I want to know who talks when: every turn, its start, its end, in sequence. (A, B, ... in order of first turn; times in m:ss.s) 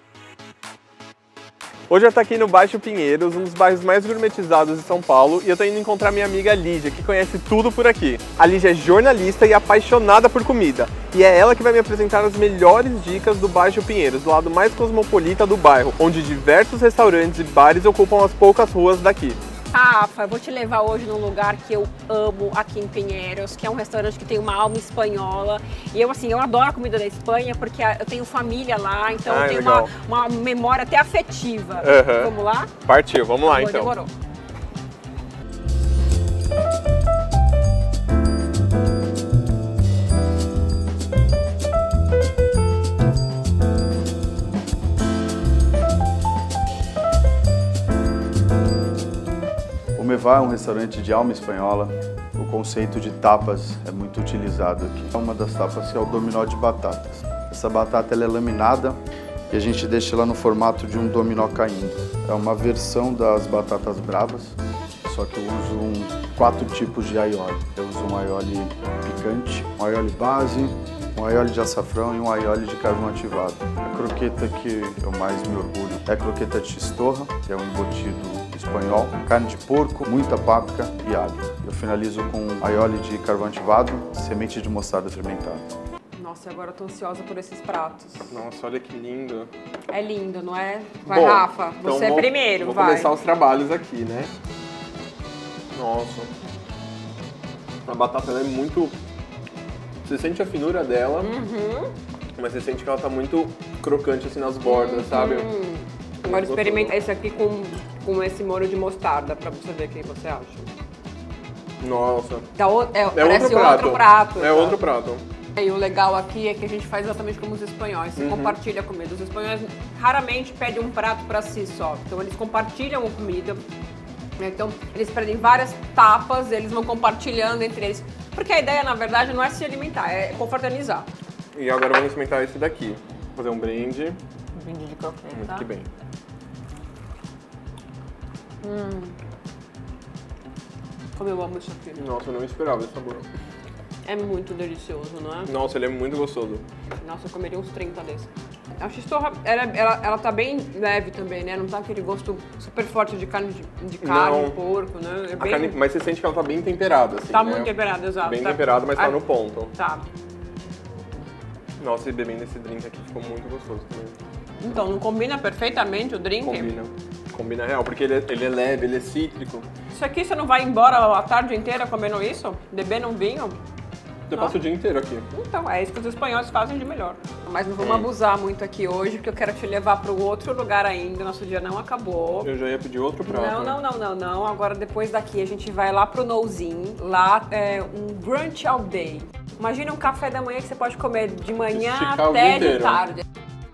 0:01.9-0:19.4 A
0:19.7-0:32.7 B
0:29.2-0:29.9 A
0:31.8-0:32.3 A
0:32.8-0:33.9 A
0:33.4-0:34.1 B
0:49.9-0:59.0 C
0:59.5-1:25.7 C
1:26.2-1:28.4 B
1:28.3-1:29.5 A
1:29.9-1:33.1 B
1:31.0-1:34.3 A
1:35.7-1:36.3 A
1:37.8-1:39.0 A
1:40.0-1:41.3 A
1:41.2-1:41.9 B
1:42.4-1:45.5 A
1:44.6-1:50.7 B
1:46.2-1:46.9 A
1:51.8-1:52.5 A
1:52.5-1:54.8 B
1:53.1-1:55.2 A
1:55.6-2:03.6 B
1:58.2-1:58.6 A
2:04.4-2:11.1 B
2:11.5-2:14.2 A
2:14.5-2:15.7 B
2:15.3-2:15.9 A
2:18.6-2:19.1 B
2:21.2-2:22.0 B
2:21.9-2:23.3 A
2:24.0-2:25.5 B
2:25.4-2:26.6 A
2:26.9-2:35.8 B
2:34.0-2:34.6 A
2:35.4-2:37.7 A
2:37.3-2:40.0 B
2:38.2-2:39.7 A
2:41.8-2:44.2 A
2:44.6-2:46.7 B
2:46.4-2:49.7 A
2:49.9-2:53.6 B
2:54.3-2:55.2 A
2:55.3-3:02.5 B
2:57.8-2:58.1 A
3:02.4-3:03.8 A
3:03.2-3:13.2 B
3:11.7-3:13.0 A